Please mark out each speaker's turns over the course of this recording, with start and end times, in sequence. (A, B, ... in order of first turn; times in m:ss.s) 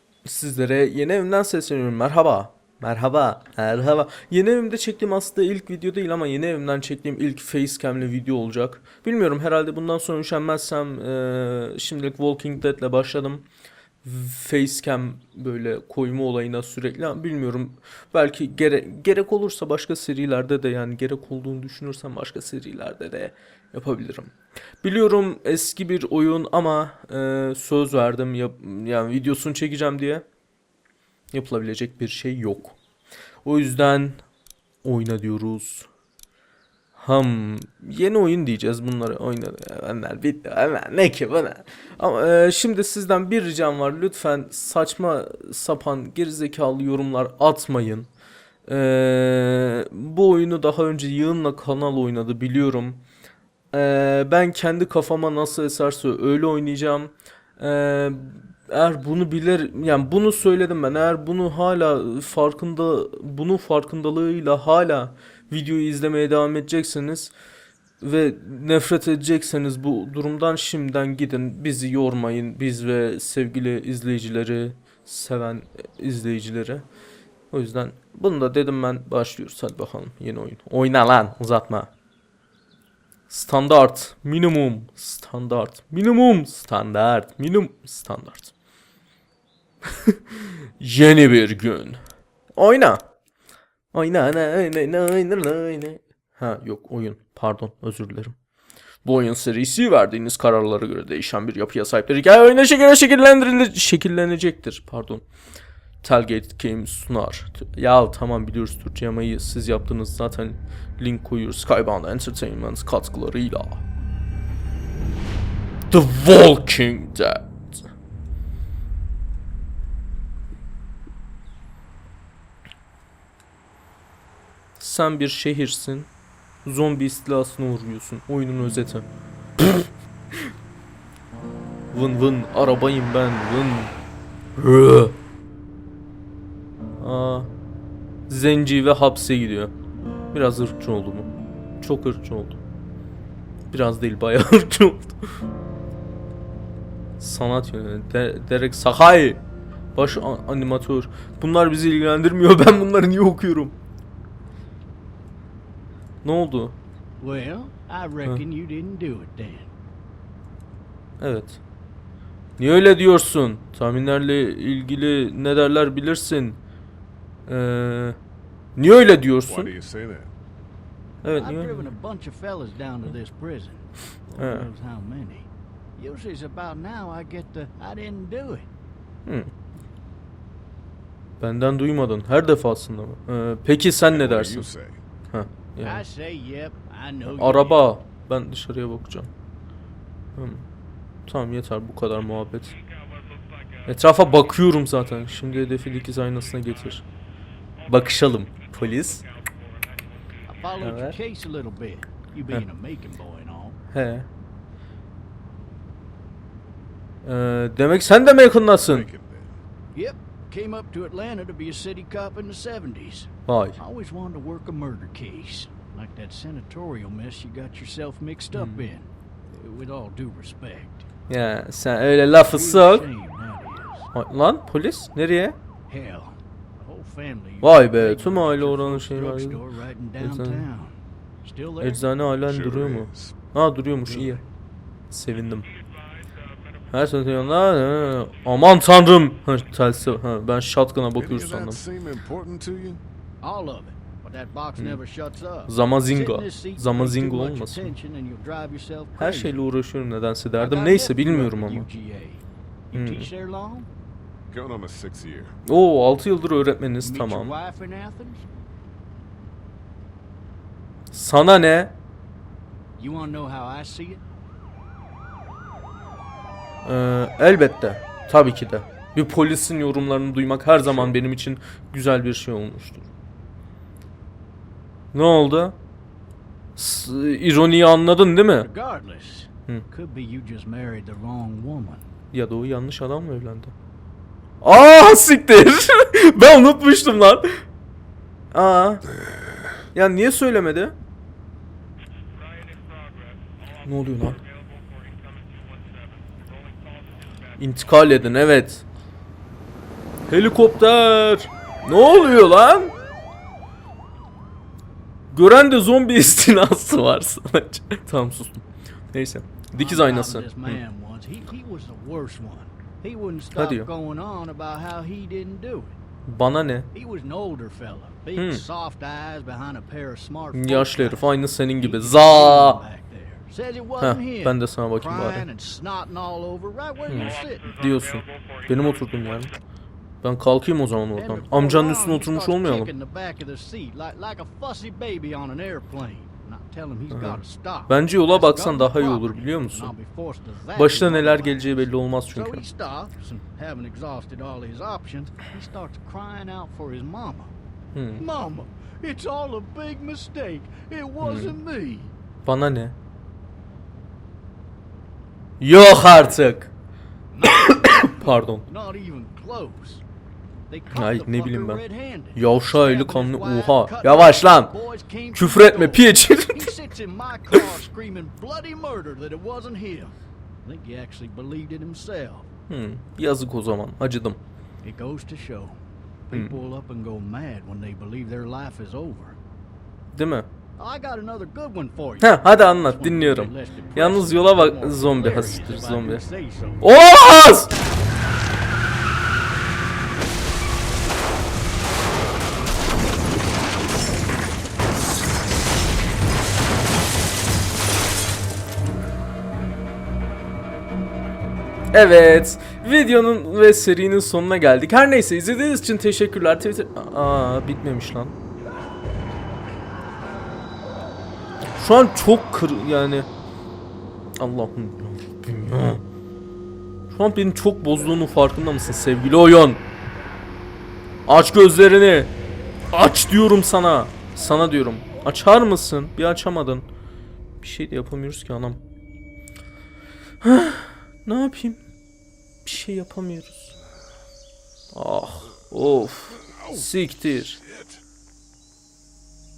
0:00.2-0:13.4 A
0:14.0-0:30.2 A
0:31.3-0:32.8 A
0:33.4-0:34.2 A
0:34.8-0:35.9 A
0:37.0-0:48.1 A
0:48.7-0:53.0 A
0:53.7-1:07.3 A
1:08.0-1:16.9 A
1:17.5-1:21.9 A
1:23.3-1:28.5 A
1:29.9-1:32.0 A
1:32.6-1:33.0 A
1:33.9-1:38.4 A
1:39.0-1:45.2 A
1:46.0-1:53.8 A
1:55.9-1:57.5 A
2:04.8-2:06.1 A
2:06.6-2:09.1 A
2:09.6-2:09.9 A
2:11.9-2:13.9 A
2:14.6-2:15.2 A
2:17.0-2:17.5 A
2:18.3-2:19.7 A
2:20.3-2:21.3 A
2:21.8-2:22.6 A
2:23.7-2:25.3 A
2:27.2-2:29.4 A
2:29.9-2:33.8 A
2:36.2-2:36.8 A
2:37.2-2:39.7 B
2:41.2-2:41.6 A
2:42.6-2:46.6 A
2:47.5-2:48.2 A
2:48.8-2:49.7 A
2:49.5-2:50.3 C
2:51.2-2:51.9 A
2:51.2-2:58.7 B
2:54.4-2:54.7 A
2:59.2-2:59.5 A
3:01.4-3:04.7 A
3:04.1-3:05.0 C
3:05.3-3:06.0 A
3:05.8-3:07.8 B
3:07.3-3:09.3 A
3:10.4-3:10.7 A
3:11.3-3:12.8 A
3:13.8-3:17.0 A
3:17.8-3:19.2 A
3:20.5-3:23.8 B
3:20.8-3:21.2 A
3:23.9-3:24.3 A
3:27.2-3:29.1 A
3:28.7-3:29.6 C
3:29.9-3:41.1 B
3:33.5-3:33.8 A
3:38.5-3:38.9 A
3:41.3-3:43.1 A
3:42.4-3:44.1 B
3:44.1-3:45.6 A
3:45.9-3:52.1 B
3:47.6-3:49.6 A
3:50.2-3:50.7 A
3:51.8-3:54.4 A
3:52.5-3:53.4 C
3:54.1-3:54.4 C
3:55.1-3:55.7 A
3:56.9-4:01.8 A
4:01.2-4:03.0 C
4:03.4-4:09.5 B
4:05.7-4:07.9 A
4:09.2-4:11.9 A
4:10.6-4:13.9 B
4:12.9-4:13.3 A
4:14.5-4:15.6 C
4:15.7-4:17.5 A
4:17.0-4:18.5 B
4:21.1-4:21.9 A
4:23.0-4:24.2 B
4:26.8-4:33.1 A
4:30.8-4:31.2 C
4:35.1-4:35.8 A
4:36.8-4:38.7 A
4:38.6-4:42.1 B
4:42.3-4:43.7 A
4:44.6-4:47.6 A
4:48.5-4:49.1 A
4:49.2-4:49.6 C
4:49.9-4:51.0 A
4:53.8-4:54.4 A
4:57.6-4:58.8 A
5:00.3-5:02.9 A
5:05.3-5:10.8 A
5:09.7-5:16.0 B
5:13.5-5:13.9 A
5:16.2-5:16.9 A
5:16.9-5:27.7 B
5:18.3-5:18.6 A
5:20.5-5:22.8 A
5:24.0-5:25.5 A
5:27.1-5:29.5 A
5:30.2-5:32.9 A
5:31.2-5:41.8 B
5:37.1-5:39.9 A
5:40.7-5:42.6 A
5:42.3-5:47.5 B
5:47.9-5:48.2 A
5:48.2-5:52.1 B
5:51.2-5:51.6 A
5:52.4-5:53.0 A
5:55.6-5:56.7 A
5:57.3-6:00.0 B
5:57.4-5:58.7 A
6:00.7-6:12.5 B
6:00.9-6:01.8 A
6:02.3-6:04.7 A
6:05.3-6:06.7 A
6:12.7-6:14.4 A
6:14.8-6:19.4 B
6:16.3-6:16.6 A
6:20.1-6:20.5 A
6:20.8-6:28.1 B
6:22.2-6:26.2 A
6:26.8-6:27.7 A
6:41.9-6:48.4 A
6:51.7-6:53.3 A
6:54.4-6:56.0 A
6:57.1-6:59.8 A
7:01.2-7:02.3 A
7:02.9-7:06.9 A
7:07.6-7:08.8 A
7:10.4-7:11.8 A
7:12.6-7:13.7 A
7:14.9-7:17.6 A
7:16.4-7:18.0 C